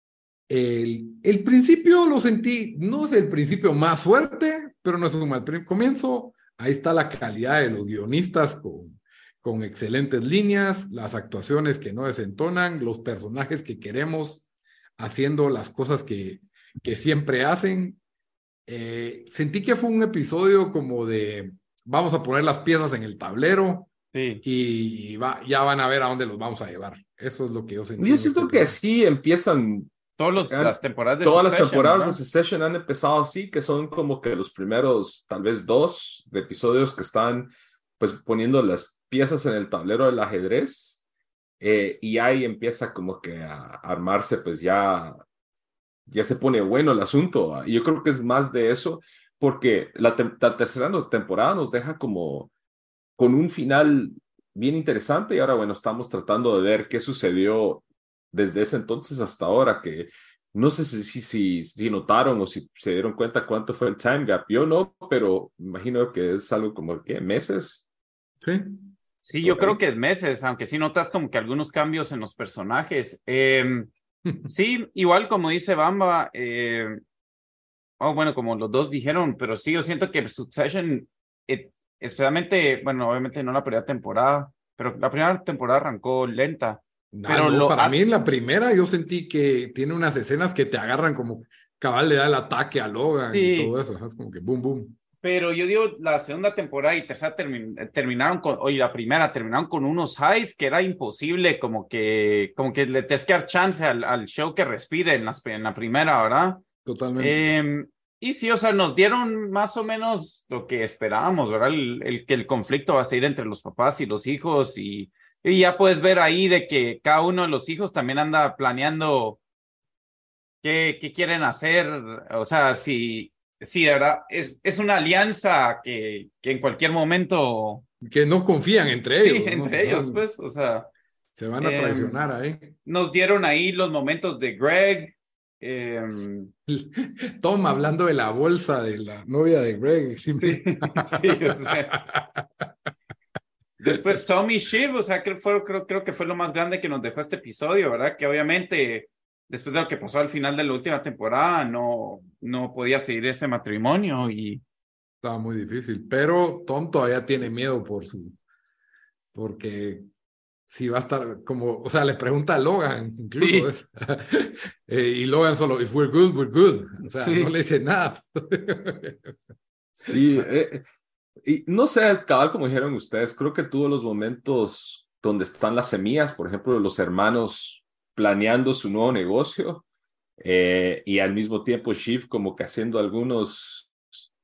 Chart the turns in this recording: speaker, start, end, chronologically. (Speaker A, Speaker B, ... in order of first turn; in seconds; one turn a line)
Speaker A: 0.5-14.4
Speaker A: 15.0-18.0
Speaker A: 18.7-23.9
Speaker B: 24.1-24.4
Speaker A: 24.4-28.8
Speaker C: 28.0-41.0
Speaker B: 30.2-32.2
Speaker C: 41.6-45.2
Speaker C: 46.1-52.5
Speaker C: 53.2-67.8
Speaker A: 68.4-68.9
Speaker B: 69.2-73.9
Speaker C: 69.4-69.8
Speaker B: 74.5-77.0
Speaker B: 78.0-88.0
Speaker A: 87.1-94.9
Speaker B: 93.3-93.7
Speaker B: 95.2-106.6
Speaker A: 106.8-107.5
Speaker B: 107.2-119.4
Speaker B: 120.6-127.8
Speaker A: 128.0-130.2
Speaker B: 129.2-130.9
Speaker A: 131.3-132.8
Speaker B: 131.6-132.2
Speaker B: 132.8-136.5
Speaker A: 136.7-142.4
Speaker B: 140.4-141.9
Speaker B: 143.8-154.6
Speaker A: 155.2-158.4
Speaker A: 159.3-160.1
Speaker A: 160.7-169.3
Speaker B: 163.3-163.7
Speaker B: 167.2-167.5
Speaker C: 170.1-170.8
Speaker C: 171.4-179.8
Speaker C: 180.4-183.9